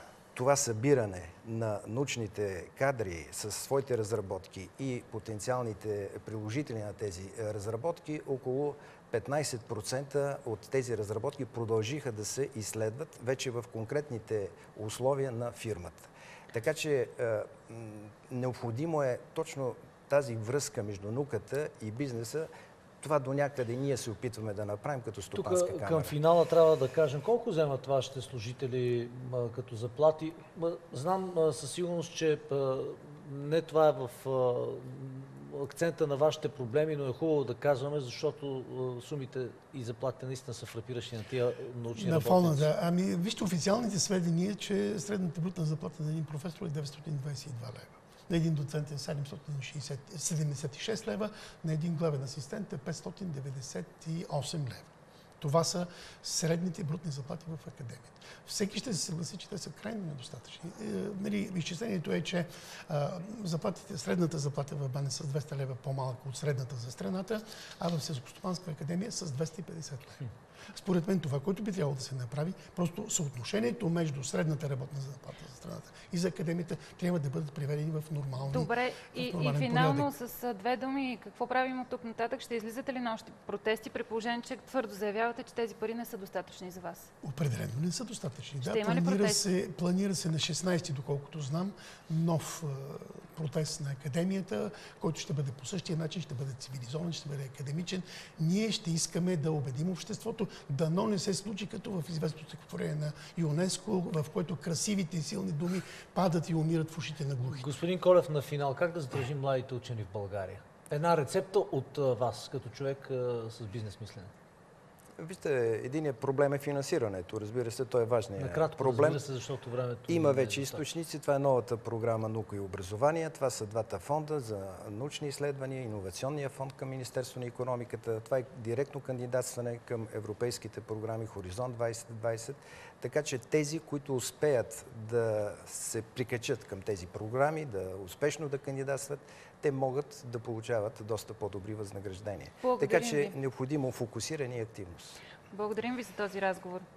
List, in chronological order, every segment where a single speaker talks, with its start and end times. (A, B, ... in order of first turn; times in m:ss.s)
0:00.4-0:22.5 A
0:23.0-0:26.1 A
0:25.3-0:42.7 B
0:41.9-1:20.1 C
1:18.5-1:27.1 D
1:27.2-1:47.7 C
1:28.6-1:29.4 D
1:47.4-1:54.3 B
1:55.2-1:59.2 A
1:58.4-2:00.9 B
2:00.1-2:25.2 A
2:22.6-2:23.4 D
2:25.5-2:26.9 D